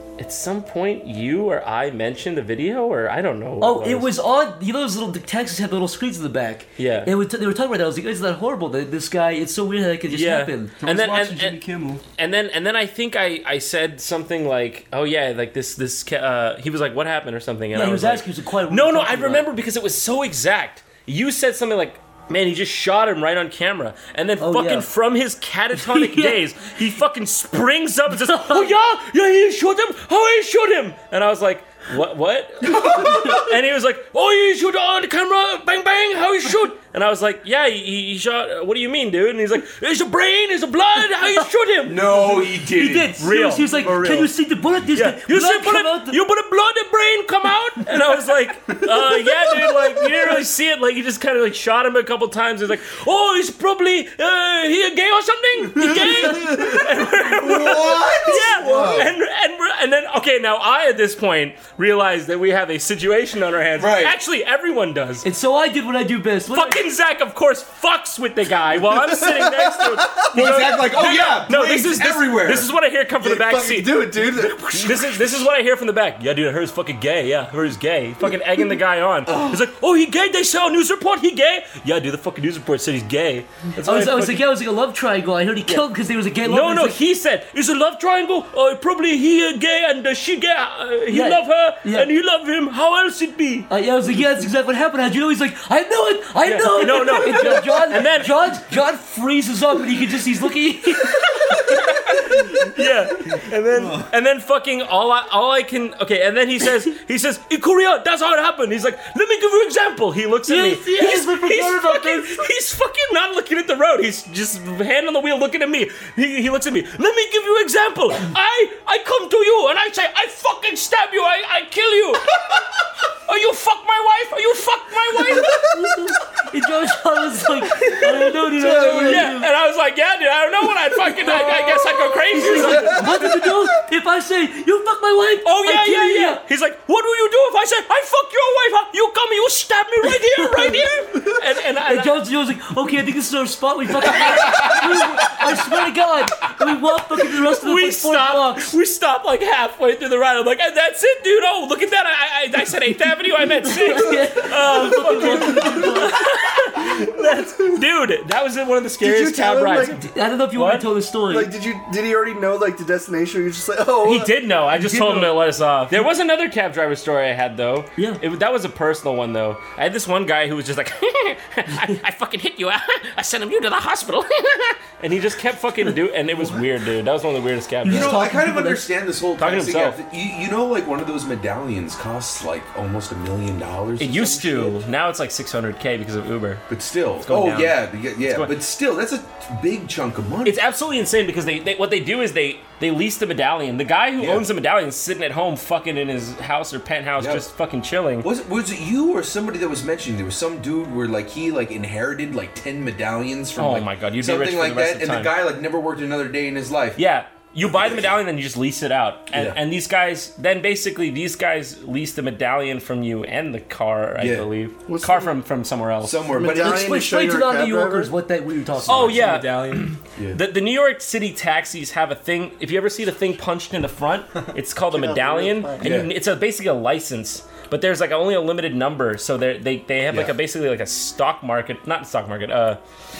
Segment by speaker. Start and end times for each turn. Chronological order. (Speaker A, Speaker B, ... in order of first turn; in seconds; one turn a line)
Speaker A: 0.2-4.1
Speaker B: 3.6-10.7
Speaker A: 6.8-7.1
Speaker A: 10.1-11.6
Speaker C: 10.8-12.0
Speaker A: 12.2-42.3
Speaker B: 17.7-19.5
Speaker B: 24.4-24.9
Speaker B: 25.7-26.4
Speaker B: 28.1-28.7
Speaker D: 32.6-33.4
Speaker D: 41.9-43.1
Speaker B: 42.2-46.2
Speaker A: 43.2-44.3
Speaker A: 44.9-65.2
Speaker E: 55.9-56.8
Speaker D: 57.2-59.1
Speaker E: 58.5-59.0
Speaker D: 63.8-64.1
Speaker B: 65.2-66.8
Speaker A: 66.5-84.5
Speaker E: 68.9-70.6
Speaker D: 70.3-72.7
Speaker E: 73.2-75.5
Speaker D: 79.2-79.6
Speaker B: 83.8-87.0
Speaker A: 86.4-93.7
Speaker B: 91.1-92.1
Speaker B: 93.7-101.8
Speaker A: 96.4-98.5
Speaker A: 101.3-122.5
Speaker C: 103.7-104.1
Speaker B: 110.5-112.5
Speaker A: 123.2-125.7
Speaker B: 125.3-129.5
Speaker A: 127.6-133.4
Speaker B: 131.2-136.4
Speaker A: 135.4-142.2
Speaker B: 140.0-148.7
Speaker A: 144.0-145.7
Speaker A: 147.4-160.9
Speaker B: 153.6-156.2
Speaker E: 156.8-157.8
Speaker E: 159.0-160.0
Speaker B: 160.0-161.5
Speaker E: 161.3-164.3
Speaker A: 164.0-178.2
Speaker B: 164.7-165.4
Speaker B: 177.8-178.9
Speaker D: 177.8-184.8
Speaker A: 179.4-180.0
Speaker A: 184.0-186.6
Speaker D: 186.7-190.6
Speaker A: 187.2-188.5
Speaker A: 190.4-198.3
Speaker D: 194.2-194.4
Speaker D: 197.2-197.4
Speaker D: 198.2-207.0
Speaker A: 203.6-205.3
Speaker A: 206.9-216.3
Speaker D: 207.7-208.0
Speaker D: 209.3-209.6
Speaker D: 214.2-214.5
Speaker E: 214.9-215.3
Speaker D: 216.0-216.9
Speaker E: 216.3-218.1
Speaker B: 216.4-219.3
Speaker A: 218.9-232.8
Speaker C: 218.9-220.0
Speaker E: 224.9-226.0
Speaker D: 225.8-226.1
Speaker D: 230.1-230.3